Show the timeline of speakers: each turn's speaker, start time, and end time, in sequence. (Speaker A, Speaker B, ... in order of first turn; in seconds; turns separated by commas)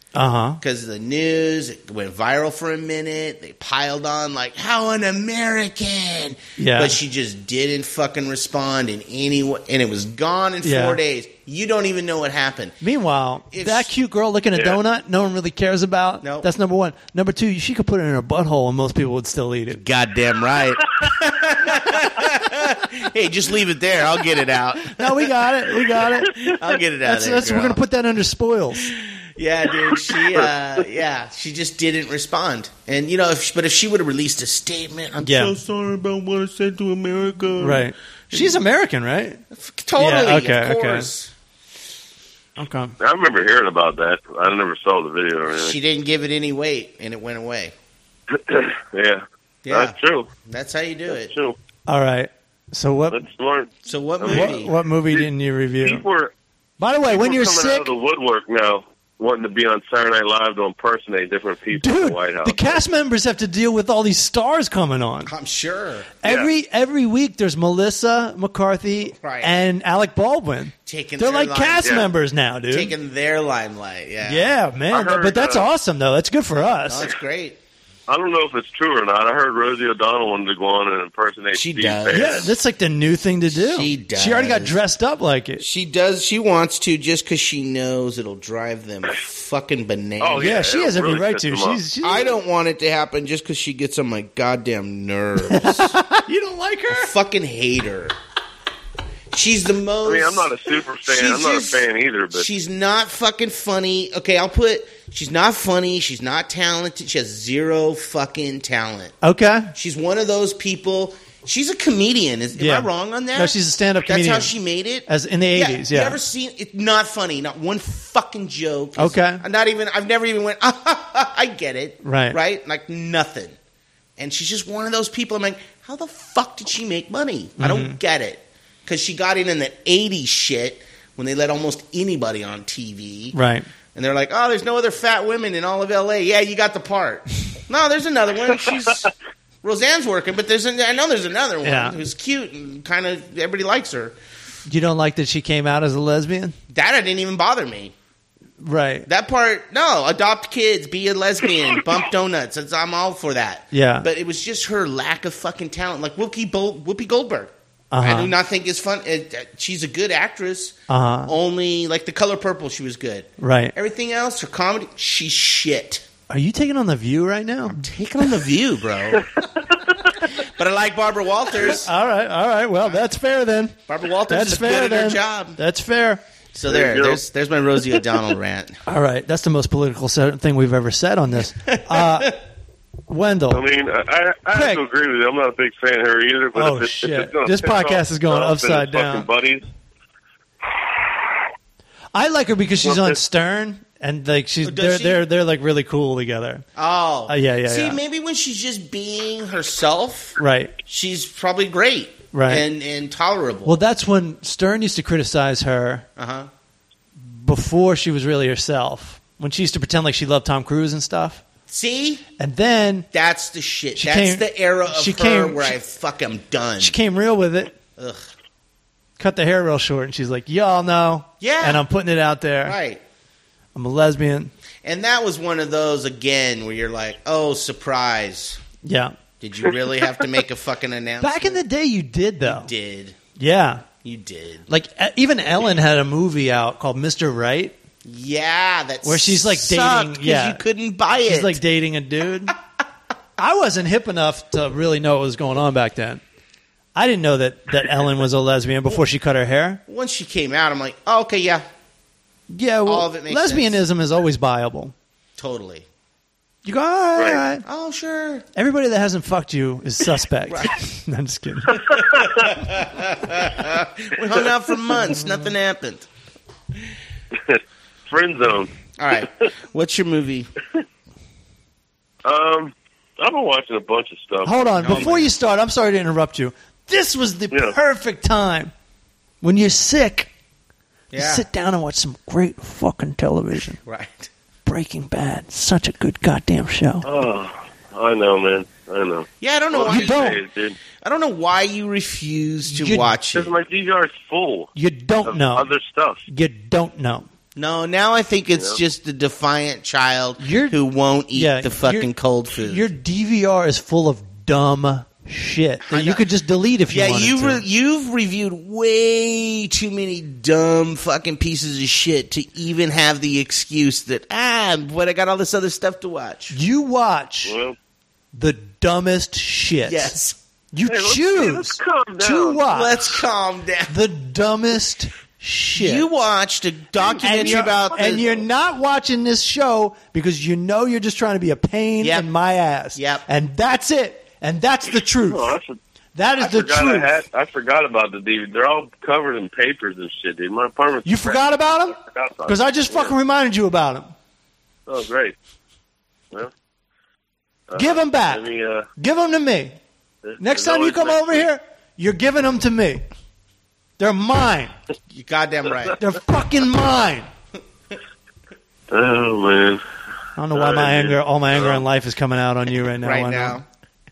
Speaker A: 0.1-0.6, Speaker B: 0.6-12.8, Speaker A: 6.6-7.0, Speaker A: 10.6-11.0, Speaker A: 12.8-19.8, Speaker B: 13.5-13.9, Speaker B: 16.2-16.5, Speaker B: 19.7-25.3, Speaker A: 24.9-26.4, Speaker B: 26.2-27.8, Speaker A: 27.0-28.9, Speaker B: 28.9-38.6, Speaker A: 35.2-35.5, Speaker A: 37.6-39.4, Speaker B: 39.5-41.3, Speaker A: 40.0-41.1, Speaker A: 42.6-42.9, Speaker C: 43.0-45.7, Speaker B: 45.5-47.7, Speaker C: 48.3-50.3, Speaker B: 49.6-51.3, Speaker C: 51.1-51.6, Speaker A: 51.9-53.2, Speaker C: 53.1-55.3, Speaker B: 53.9-54.7, Speaker A: 54.2-56.0, Speaker C: 55.8-56.3, Speaker A: 56.8-57.9, Speaker C: 57.1-62.8, Speaker A: 61.7-65.3, Speaker B: 65.2-66.1, Speaker A: 66.2-72.9, Speaker C: 66.2-66.5, Speaker B: 69.1-69.5, Speaker B: 70.8-72.1, Speaker B: 72.7-74.5, Speaker A: 74.2-77.1, Speaker C: 74.9-75.7, Speaker B: 76.9-77.6, Speaker C: 78.1-82.5, Speaker B: 81.5-82.5, Speaker A: 82.1-85.6, Speaker B: 83.5-84.8, Speaker B: 85.6-90.5, Speaker C: 90.2-91.8, Speaker A: 90.4-92.3, Speaker B: 92.0-96.0, Speaker A: 95.5-97.1, Speaker B: 96.9-98.1, Speaker B: 99.3-100.5, Speaker C: 100.0-102.5, Speaker B: 101.0-109.1, Speaker A: 109.2-109.7, Speaker B: 109.7-123.5, Speaker A: 112.6-114.5, Speaker A: 115.1-116.2, Speaker A: 119.0-119.4, Speaker A: 122.0-122.4, Speaker B: 124.2-133.3, Speaker A: 127.6-128.0, Speaker A: 133.3-133.7, Speaker B: 133.9-139.1, Speaker B: 139.6-144.2, Speaker A: 141.6-142.0, Speaker A: 144.7-146.5, Speaker B: 146.7-147.9, Speaker A: 148.6-149.1, Speaker B: 149.1-166.1, Speaker A: 153.7-154.1, Speaker A: 157.9-158.3, Speaker A: 160.9-161.3, Speaker A: 163.4-163.7, Speaker A: 166.3-167.8, Speaker B: 167.7-169.3, Speaker B: 170.4-171.9, Speaker A: 171.7-173.8, Speaker B: 173.9-175.6, Speaker A: 174.3-176.2, Speaker B: 176.5-178.8, Speaker C: 176.7-177.2, Speaker A: 178.9-182.4, Speaker B: 181.7-182.3, Speaker A: 183.1-183.6, Speaker C: 183.5-189.6, Speaker A: 184.5-184.8, Speaker A: 186.5-189.2, Speaker A: 192.1-196.6, Speaker C: 192.8-193.2, Speaker B: 194.6-195.2, Speaker B: 196.8-203.8, Speaker A: 197.3-198.0, Speaker A: 200.4-200.7, Speaker A: 202.3-202.7, Speaker A: 203.6-206.1, Speaker B: 206.2-206.5, Speaker A: 207.2-211.4, Speaker B: 211.7-212.2, Speaker A: 212.4-213.1, Speaker B: 213.1-216.9, Speaker A: 213.9-215.7, Speaker A: 216.8-217.7, Speaker B: 218.0-218.2, Speaker A: 219.2-222.8, Speaker B: 221.4-221.8, Speaker B: 222.6-223.0, Speaker A: 223.7-224.5, Speaker B: 224.8-228.6, Speaker A: 228.8-229.1, Speaker B: 229.4-231.6, Speaker A: 231.2-232.7, Speaker B: 232.4-233.2, Speaker A: 233.4-233.8, Speaker B: 234.0-234.7, Speaker A: 234.7-237.7, Speaker B: 238.0-241.6, Speaker A: 239.0-240.6, Speaker A: 241.2-242.5, Speaker A: 243.4-246.2, Speaker A: 246.9-249.8, Speaker B: 249.9-251.6, Speaker A: 252.5-254.9, Speaker B: 252.8-253.8, Speaker B: 255.4-255.8, Speaker A: 256.6-257.6, Speaker C: 257.1-257.4, Speaker B: 257.6-258.4, Speaker A: 258.6-262.0, Speaker B: 260.5-260.7, Speaker C: 261.9-262.5, Speaker B: 262.4-266.1, Speaker C: 267.3-268.7, Speaker B: 269.0-270.5, Speaker C: 272.2-275.1, Speaker A: 274.4-278.7, Speaker B: 274.8-275.3, Speaker A: 279.4-280.3, Speaker B: 281.1-281.4, Speaker A: 281.1-283.8, Speaker B: 283.8-284.3, Speaker A: 284.6-287.0, Speaker C: 287.0-290.8, Speaker B: 289.4-293.5, Speaker A: 289.8-290.4, Speaker A: 292.6-293.1, Speaker C: 293.3-294.7, Speaker A: 294.7-295.7, Speaker C: 295.2-296.2, Speaker A: 296.3-297.3, Speaker B: 297.6-302.9, Speaker A: 300.4-300.8, Speaker A: 301.3-307.6, Speaker B: 305.8-306.2, Speaker B: 306.9-316.6, Speaker A: 316.5-317.5, Speaker C: 317.4-317.8, Speaker A: 318.3-320.1, Speaker B: 319.9-320.4, Speaker A: 320.7-323.2, Speaker C: 320.9-322.6, Speaker B: 322.6-323.9, Speaker A: 323.9-326.1, Speaker B: 325.7-328.3, Speaker C: 327.0-328.4, Speaker A: 327.2-335.5, Speaker B: 332.0-332.3, Speaker B: 332.9-333.2, Speaker C: 335.2-335.8, Speaker A: 336.1-337.1, Speaker C: 336.4-341.4, Speaker A: 341.0-344.1, Speaker C: 341.9-343.1, Speaker C: 344.9-345.4, Speaker C: 347.7-348.9, Speaker A: 347.8-348.4, Speaker A: 349.0-349.8, Speaker C: 350.2-351.4, Speaker A: 350.4-353.0, Speaker A: 354.0-354.7, Speaker B: 355.1-356.0, Speaker A: 356.0-357.3, Speaker C: 358.9-359.8, Speaker A: 360.4-363.6, Speaker C: 360.5-361.8, Speaker B: 363.0-363.6